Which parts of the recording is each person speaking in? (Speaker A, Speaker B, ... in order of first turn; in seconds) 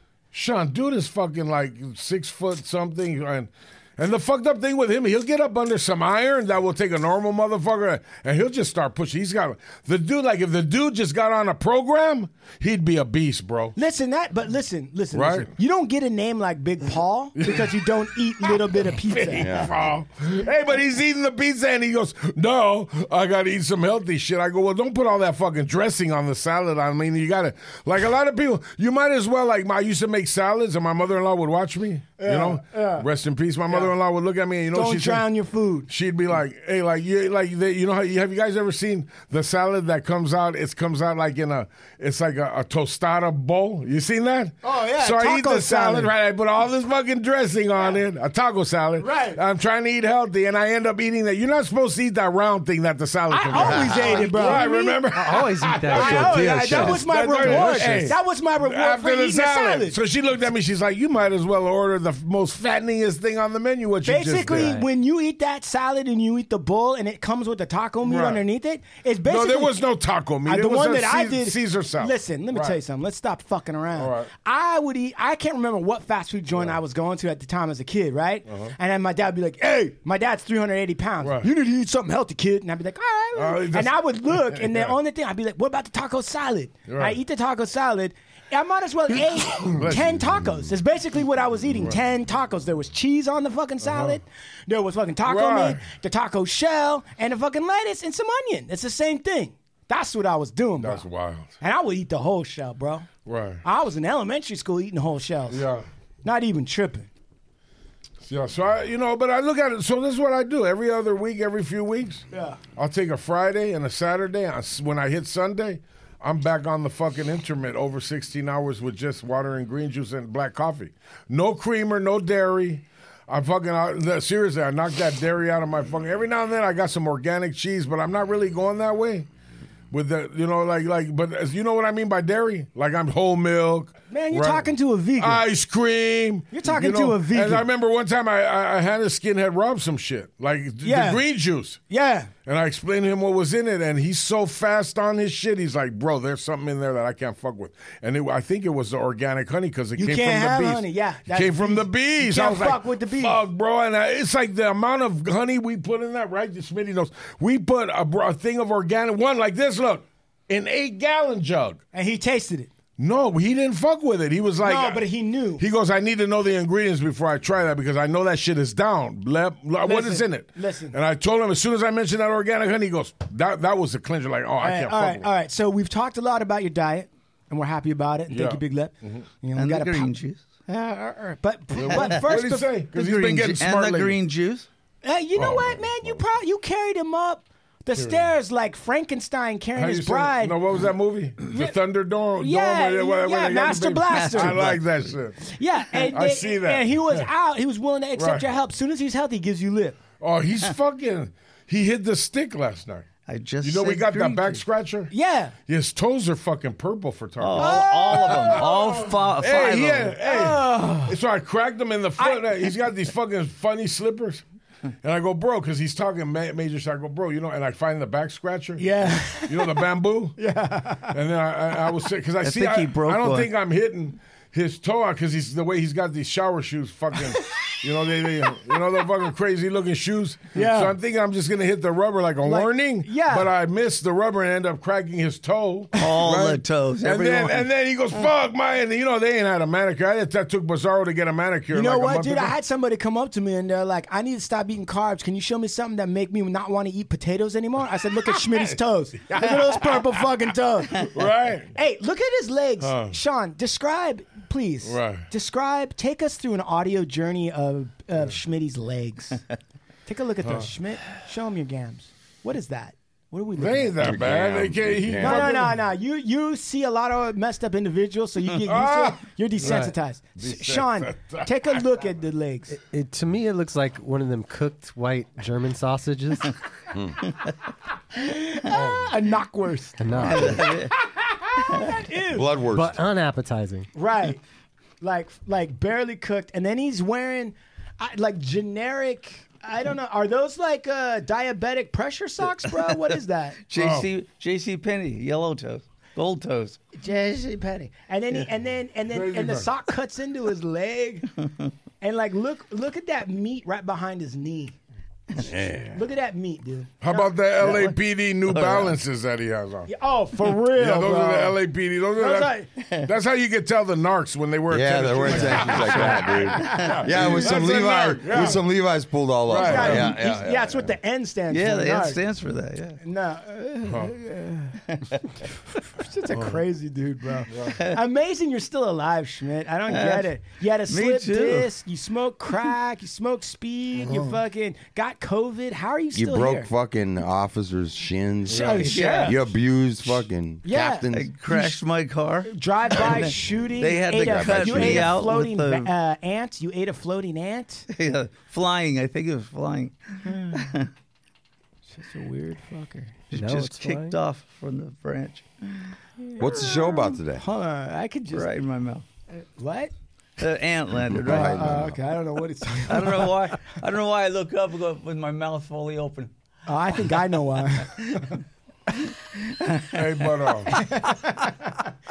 Speaker A: 0.3-13.8, 15.1-15.5, 17.4-17.8, 18.4-35.3, 35.9-64.8, 68.0-68.4, 69.2-72.8, 74.0-74.3, 78.5-78.7, 81.2-81.5, 83.3-85.0, 86.9-87.2, 89.5-90.6, 93.8-94.2, 95.2-95.8, 100.8-101.5, 103.2-103.6, 105.5-105.8, 108.2-129.3, 129.9-141.8, 142.4-161.8, 163.0-165.0, 165.6-175.3, 178.3-179.2, 181.7-184.2, 185.4-186.2, 187.9-188.3, 189.8-195.4, 196.1-197.3, 198.2-198.5, 200.2-203.1, 203.6-205.1, 205.7-214.4, 215.0-218.9, 219.4-220.3, 221.1-242.5, 248.4-248.8, 249.3-250.1, 251.0-251.7, 252.8-253.2, 254.8-255.3, 260.4-260.7, 263.6-265.7, 268.6-271.8, 278.7-279.1, 293.7-294.1, 299.1-299.7, 307.0-309.9, 310.6-318.6, 319.5-320.1, 323.9-324.1, 326.3-326.6, 327.5-327.8, 334.0-334.4, 338.5-338.8, 369.9-370.8
Speaker B: 13.8-19.5, 32.2-33.0, 33.7-33.9, 34.7-35.9, 44.6-46.1, 49.0-49.4, 53.3-55.0, 55.9-60.0, 64.0-69.8, 70.4-101.0, 101.6-103.1, 103.6-105.6, 106.2-107.1, 112.3-112.6, 134.1-135.4, 136.5-137.7, 140.8-141.2, 141.9-142.3, 149.9-153.4, 161.9-162.7, 164.6-165.6, 169.8-171.0, 174.6-180.1, 180.7-182.8, 185.0-190.6, 192.4-194.7, 195.5-200.0, 205.1-205.5, 207.6-208.7, 210.2-211.2, 212.2-212.7, 218.8-219.8, 220.4-221.2, 230.5-230.9, 232.4-233.5, 241.7-251.1, 251.7-259.4, 260.1-264.4, 265.1-272.8, 278.1-282.5, 283.9-284.4, 285.0-293.6, 296.9-301.3, 302.0-304.7, 305.9-307.3, 309.9-311.6, 312.1-312.7, 315.7-316.9, 319.5-322.2, 323.0-324.8, 325.9-336.7, 338.5-339.4, 340.6-341.8, 342.5-347.9, 350.2-350.6, 351.9-353.2, 356.2-358.5, 359.3-359.9, 361.2-363.6, 366.7-368.2, 370.7-371.9
Speaker C: 19.4-19.7, 264.0-265.5, 276.9-277.3, 282.3-283.0, 305.4-306.0, 314.7-320.9, 336.1-341.3, 344.1-345.2, 356.4-357.4, 361.1-362.0
Speaker D: 53.5-58.1, 64.5-64.8, 269.6-269.9, 272.8-276.5, 280.0-280.7, 282.7-283.9, 353.3-354.2
Speaker E: 179.6-180.4, 182.9-184.7, 194.1-195.2, 203.3-204.6, 207.4-210.2, 222.4-223.5, 236.0-237.7, 280.3-280.9, 293.7-296.8, 307.6-309.0, 321.5-323.0, 329.9-330.3, 330.9-331.7, 338.6-339.4, 341.1-345.9, 347.9-350.9, 353.3-355.9, 358.3-359.0, 360.4-361.7, 362.9-366.3, 368.0-368.2, 369.6-369.9